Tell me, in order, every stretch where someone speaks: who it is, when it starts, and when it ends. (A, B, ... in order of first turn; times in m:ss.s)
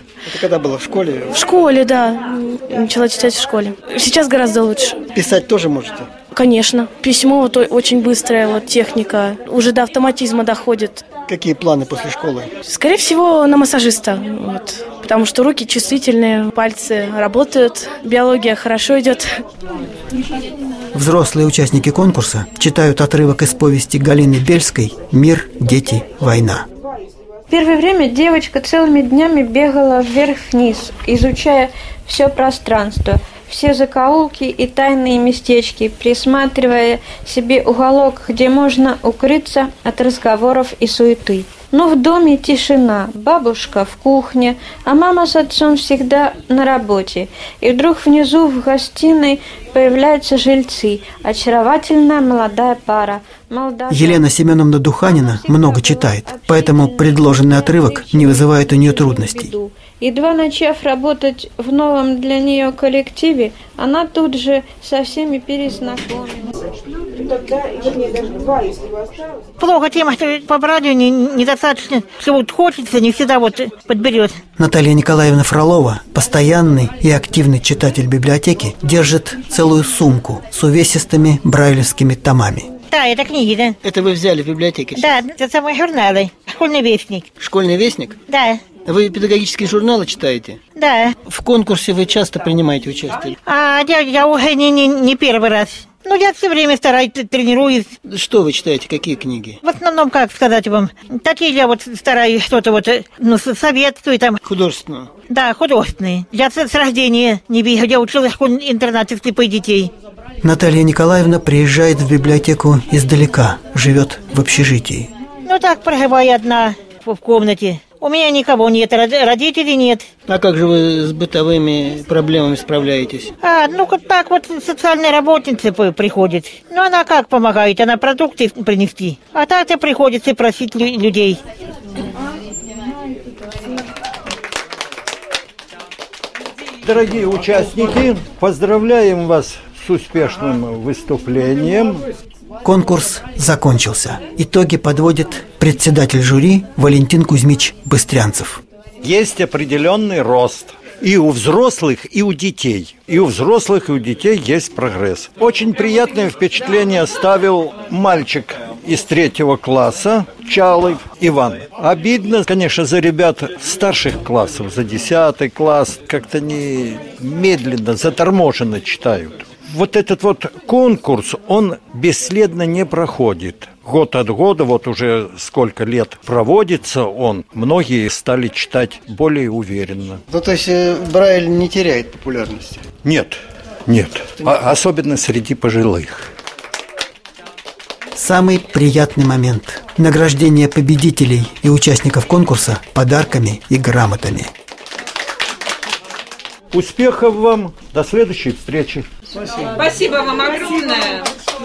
0:00.2-0:01.5 A
0:01.3-0:05.0 B
0:05.1-0:06.1 A
0:06.3-0:11.0 B
0:11.3-0:12.5 A
0:12.6-0:19.2 B
0:20.9-0:26.6 C
0:27.5-0:54.3 D
0:53.9-0:59.5 C
0:55.0-1:06.5 D
1:09.6-1:14.4 E
1:14.6-1:22.7 C
1:22.9-1:23.8 E
1:23.8-1:25.2 A
1:24.9-1:27.3 E
1:27.4-1:28.2 A
1:28.3-1:28.6 E
1:28.8-1:30.6 A
1:30.8-1:31.2 E
1:31.2-1:33.3 A
1:33.4-1:37.9 E
1:38.0-1:39.6 A
1:39.6-1:44.4 E
1:44.4-1:45.1 A
1:45.3-1:49.9 E
1:50.4-1:55.1 C
1:55.4-2:00.0 E
2:00.3-2:03.3 A
2:03.4-2:11.4 E
2:16.8-2:22.0 F
2:22.6-2:28.6 C
2:29.0-3:00.2 F
3:00.3-3:02.8 A
3:03.0-3:06.3 F
3:08.2-3:14.5 C
3:16.7-3:19.0 F